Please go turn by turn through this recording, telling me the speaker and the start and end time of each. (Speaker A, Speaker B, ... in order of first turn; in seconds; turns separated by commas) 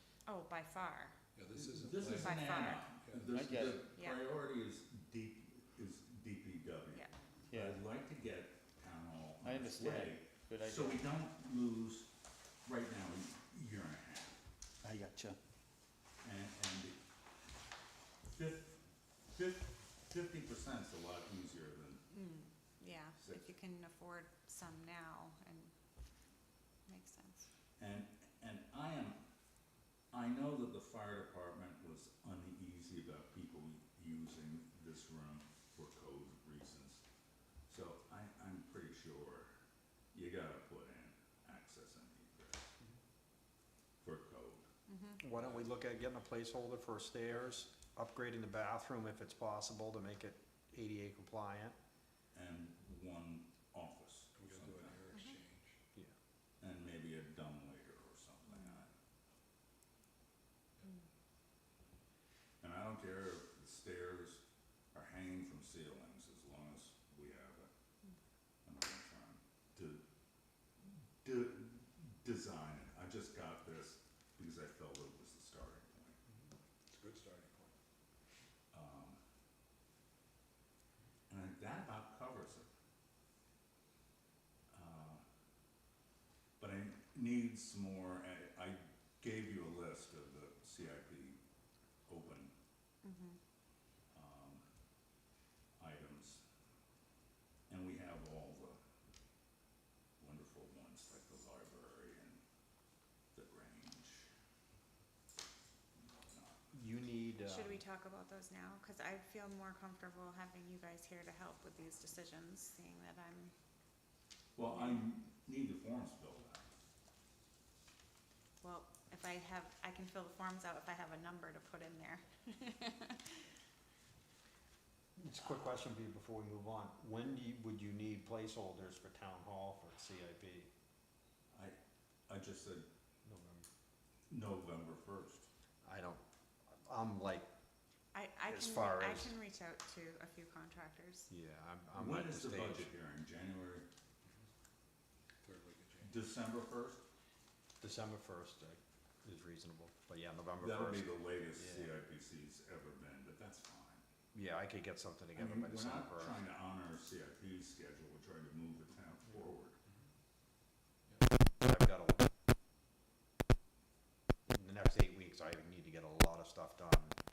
Speaker A: 0.2-1.2, Speaker B: 1.3-3.3, Speaker C: 1.6-12.1, Speaker A: 2.1-2.9, Speaker D: 3.3-3.9, Speaker A: 3.9-4.2, Speaker D: 7.5-7.8, Speaker D: 9.4-11.1, Speaker C: 12.7-14.4, Speaker D: 14.8-15.4, Speaker C: 16.2-16.9, Speaker C: 18.2-18.8, Speaker C: 19.3-22.0, Speaker A: 22.1-25.7, Speaker C: 23.2-23.5, Speaker A: 26.9-27.5, Speaker C: 27.8-29.2, Speaker C: 30.1-37.0, Speaker C: 37.7-39.5, Speaker C: 40.1-42.7, Speaker C: 44.0-44.6, Speaker A: 44.9-45.2, Speaker E: 45.2-51.8, Speaker B: 45.4-45.7, Speaker C: 52.3-55.1, Speaker B: 54.4-55.8, Speaker A: 55.1-55.4, Speaker C: 56.6-58.9, Speaker A: 58.5-58.8, Speaker C: 62.6-64.4, Speaker C: 64.9-67.7, Speaker C: 68.7-70.0, Speaker C: 70.8-76.2, Speaker B: 76.3-77.8, Speaker C: 78.7-79.2, Speaker C: 81.3-82.7, Speaker C: 84.7-85.2, Speaker C: 86.6-91.4, Speaker C: 92.1-92.5, Speaker A: 93.0-93.4, Speaker C: 94.1-94.6, Speaker C: 95.8-96.4, Speaker C: 97.7-98.8, Speaker C: 100.2-102.4, Speaker C: 103.3-104.3, Speaker C: 106.0-106.6, Speaker E: 106.7-107.8, Speaker A: 107.4-113.5, Speaker C: 114.6-116.7, Speaker A: 118.6-123.5, Speaker E: 125.2-130.7, Speaker A: 125.5-125.8, Speaker C: 131.5-131.8, Speaker C: 132.3-132.8, Speaker E: 133.2-133.7, Speaker C: 134.3-135.5, Speaker E: 135.8-137.5, Speaker A: 138.1-141.3, Speaker E: 138.5-139.3, Speaker E: 141.3-142.9, Speaker C: 141.9-143.9, Speaker B: 145.4-146.2, Speaker C: 146.0-147.0, Speaker E: 147.8-152.0, Speaker C: 150.6-154.0, Speaker E: 154.3-156.5, Speaker C: 155.3-159.8, Speaker E: 161.6-162.3, Speaker E: 164.5-167.2